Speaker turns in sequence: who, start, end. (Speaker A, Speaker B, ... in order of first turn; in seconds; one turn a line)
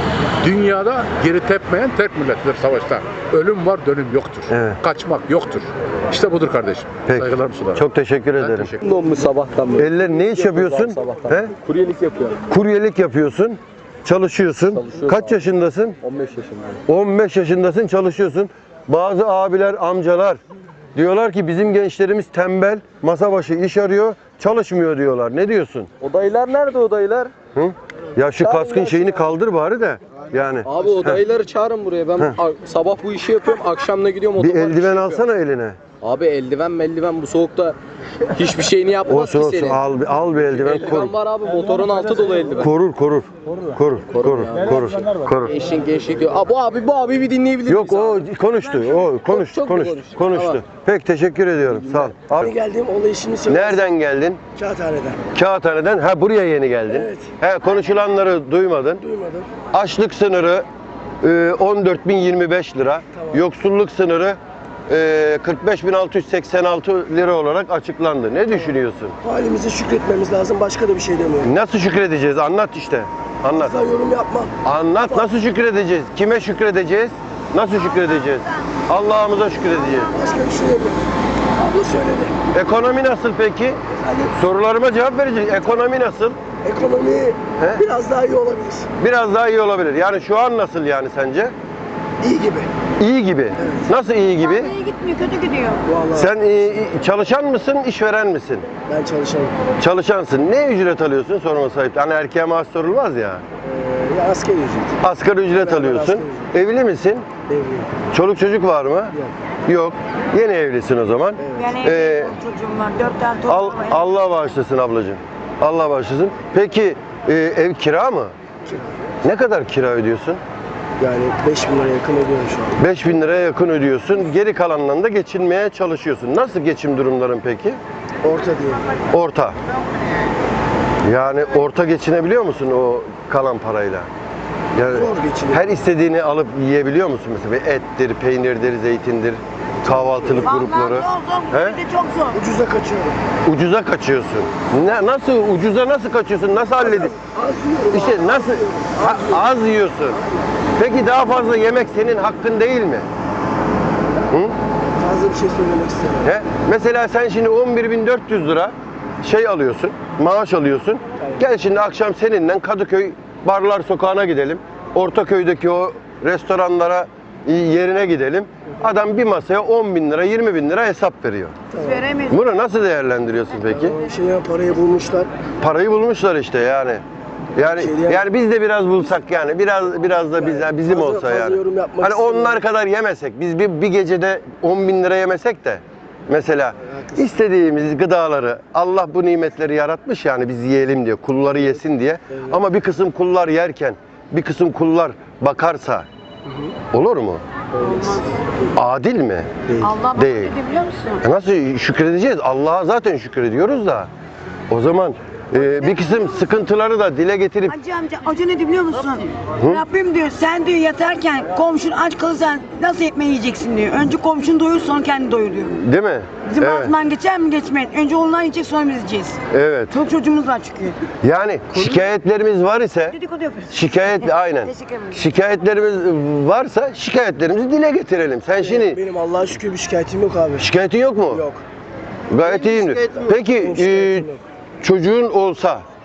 Speaker A: 0.4-7.9
Speaker B: 4.5-4.8
Speaker B: 7.1-8.7
Speaker A: 8.4-8.9
Speaker C: 8.8-12.4
Speaker B: 9.8-11.5
Speaker B: 12.5-16.0
Speaker C: 14.7-15.4
Speaker C: 16.0-16.8
Speaker B: 16.9-20.4
Speaker B: 20.9-25.9
Speaker C: 26.0-27.4
Speaker B: 27.6-31.2
Speaker C: 28.4-29.3
Speaker C: 30.6-35.2
Speaker B: 34.4-35.8
Speaker C: 36.0-37.8
Speaker C: 38.3-39.8
Speaker B: 39.1-41.1
Speaker C: 40.4-42.7
Speaker B: 42.6-45.5
Speaker C: 44.1-44.9
Speaker C: 45.4-48.2
Speaker B: 47.7-52.5
Speaker C: 49.0-50.6
Speaker D: 52.4-53.9
Speaker B: 53.5-54.4
Speaker D: 54.5-55.2
Speaker B: 55.3-59.0
Speaker D: 56.9-57.3
Speaker D: 59.0-59.5
Speaker B: 59.7-60.7
Speaker B: 61.2-69.2
Speaker D: 63.1-63.4
Speaker D: 69.2-71.5
Speaker B: 71.4-73.8
Speaker D: 73.5-75.3
Speaker B: 74.6-80.2
Speaker E: 79.8-80.4
Speaker D: 80.1-82.4
Speaker B: 82.5-86.4
Speaker D: 83.9-84.3
Speaker D: 86.6-88.9
Speaker B: 87.6-87.8
Speaker B: 89.0-91.5
Speaker D: 92.2-92.7
Speaker B: 93.0-94.8
Speaker D: 93.6-93.9
Speaker E: 94.5-95.8
Speaker D: 95.8-96.8
Speaker B: 96.1-98.7
Speaker D: 98.9-99.6
Speaker B: 99.8-103.5
Speaker D: 103.6-105.0
Speaker B: 105.0-107.3
Speaker D: 105.5-106.5
Speaker D: 107.5-108.0
Speaker B: 108.1-109.2
Speaker B: 109.7-112.4
Speaker D: 111.4-111.8
Speaker E: 111.5-114.2
Speaker B: 113.5-118.3
Speaker D: 118.7-119.0
Speaker B: 119.2-120.4
Speaker D: 121.0-122.8
Speaker B: 122.8-127.8
Speaker D: 128.2-128.9
Speaker B: 129.1-129.6
Speaker B: 131.0-134.1
Speaker B: 134.8-141.8
Speaker D: 134.9-135.6
Speaker D: 139.8-140.6
Speaker E: 140.5-142.4
Speaker D: 142.3-143.2
Speaker B: 143.4-147.1
Speaker D: 146.8-149.6
Speaker B: 147.9-150.2
Speaker D: 150.2-150.5
Speaker B: 150.8-153.1
Speaker B: 154.3-154.6
Speaker D: 155.0-156.3
Speaker B: 156.2-171.6
Speaker D: 171.7-172.2
Speaker E: 172.0-172.3
Speaker B: 172.2-174.0
Speaker D: 173.7-175.3
Speaker B: 175.6-177.0
Speaker B: 177.6-196.1
Speaker D: 177.6-178.2
Speaker D: 180.4-182.6
Speaker D: 186.9-187.2
Speaker D: 196.5-196.8
Speaker B: 196.9-197.4
Speaker D: 197.8-198.4
Speaker E: 197.8-198.3
Speaker B: 198.7-200.6
Speaker D: 199.7-200.0
Speaker E: 199.8-201.2
Speaker B: 201.2-204.1
Speaker B: 204.7-207.8
Speaker E: 205.7-206.2
Speaker E: 207.7-215.8
Speaker B: 209.6-209.8
Speaker B: 215.7-217.0
Speaker E: 216.4-221.1
Speaker B: 219.5-220.0
Speaker B: 221.2-223.2
Speaker E: 223.1-225.2
Speaker B: 223.7-229.0
Speaker D: 228.6-230.7
Speaker B: 230.6-231.4
Speaker D: 231.3-231.6
Speaker B: 232.3-234.3
Speaker D: 232.4-234.4
Speaker B: 234.8-235.8